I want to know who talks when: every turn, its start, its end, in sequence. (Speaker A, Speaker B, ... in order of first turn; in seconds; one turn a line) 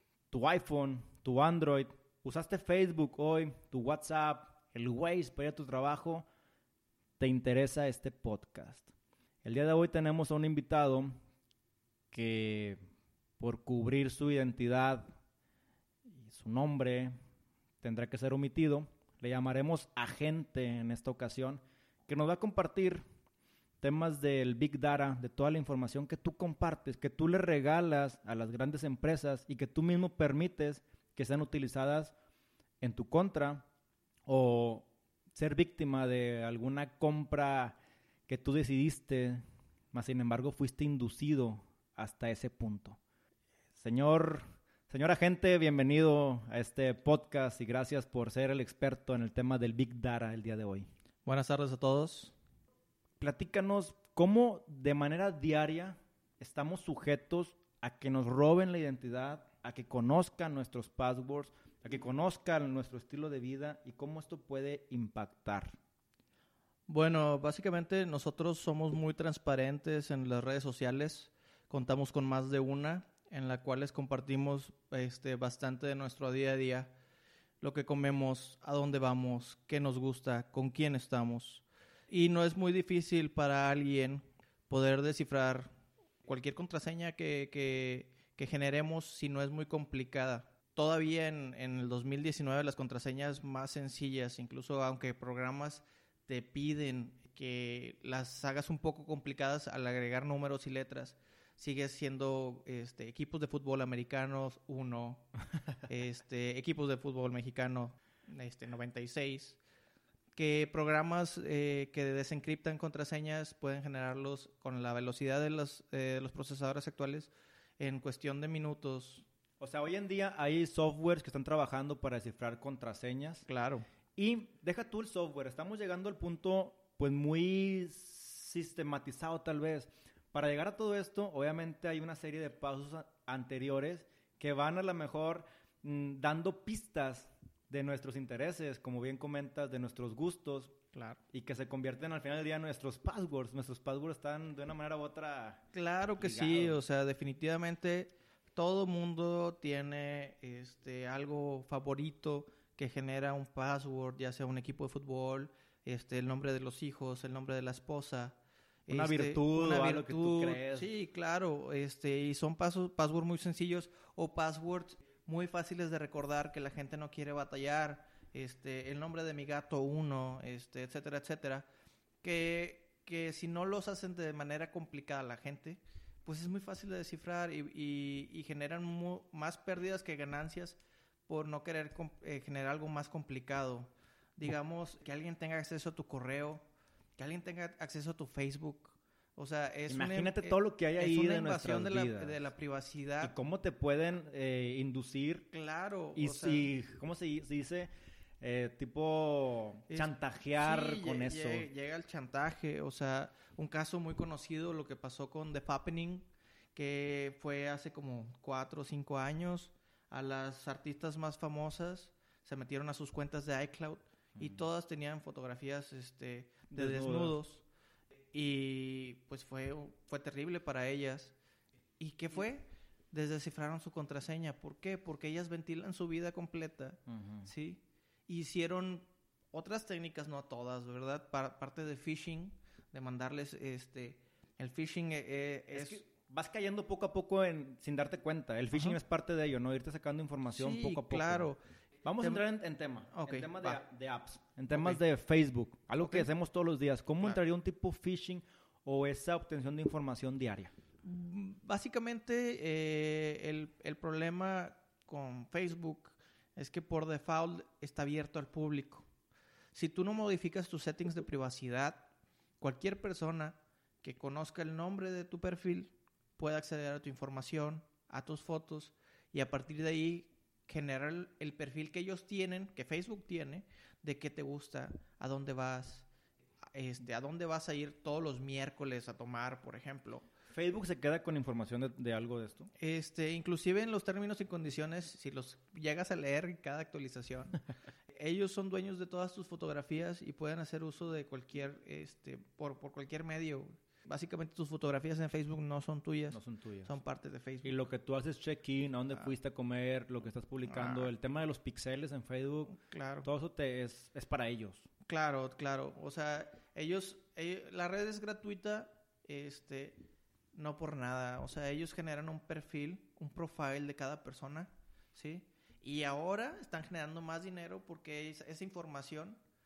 Speaker A: 0.3-6.2
Speaker A: 7.2-8.9
Speaker A: 9.4-11.2
Speaker A: 12.1-12.8
Speaker A: 13.4-15.1
Speaker A: 16.2-17.1
Speaker A: 17.8-23.0
Speaker A: 23.8-32.1
Speaker A: 32.8-33.6
Speaker A: 34.3-37.8
Speaker A: 38.3-39.4
Speaker A: 39.9-43.0
Speaker A: 43.8-50.9
Speaker B: 51.2-52.3
Speaker A: 53.2-65.8
Speaker B: 66.9-76.9
Speaker B: 77.6-85.7
Speaker B: 86.2-105.3
Speaker B: 105.9-109.6
Speaker B: 110.3-119.2
Speaker A: 119.6-123.5
Speaker B: 123.5-123.8
Speaker A: 124.2-140.8
Speaker B: 140.9-141.2
Speaker A: 141.3-146.8
Speaker B: 145.7-171.7
Speaker A: 158.9-160.9
Speaker B: 172.2-186.6
Speaker B: 187.2-193.3
Speaker A: 189.9-192.5
Speaker A: 193.2-195.5
Speaker B: 195.5-196.7
Speaker A: 196.1-197.9
Speaker A: 198.4-201.7
Speaker B: 199.9-217.6
Speaker A: 216.7-217.4
Speaker B: 218.3-221.3
Speaker B: 222.0-236.0
Speaker A: 227.1-227.5
Speaker A: 235.7-241.5
Speaker B: 240.5-241.6
Speaker A: 242.0-250.7
Speaker B: 243.1-243.8
Speaker B: 244.7-245.0
Speaker B: 246.0-246.3
Speaker B: 251.0-259.1
Speaker B: 259.7-276.1
Speaker B: 276.7-280.3
Speaker A: 280.5-282.7
Speaker B: 282.8-297.8
Speaker A: 296.3-296.9
Speaker A: 297.6-304.9
Speaker B: 300.7-301.1
Speaker B: 302.7-303.3
Speaker B: 305.1-310.0
Speaker B: 310.5-319.4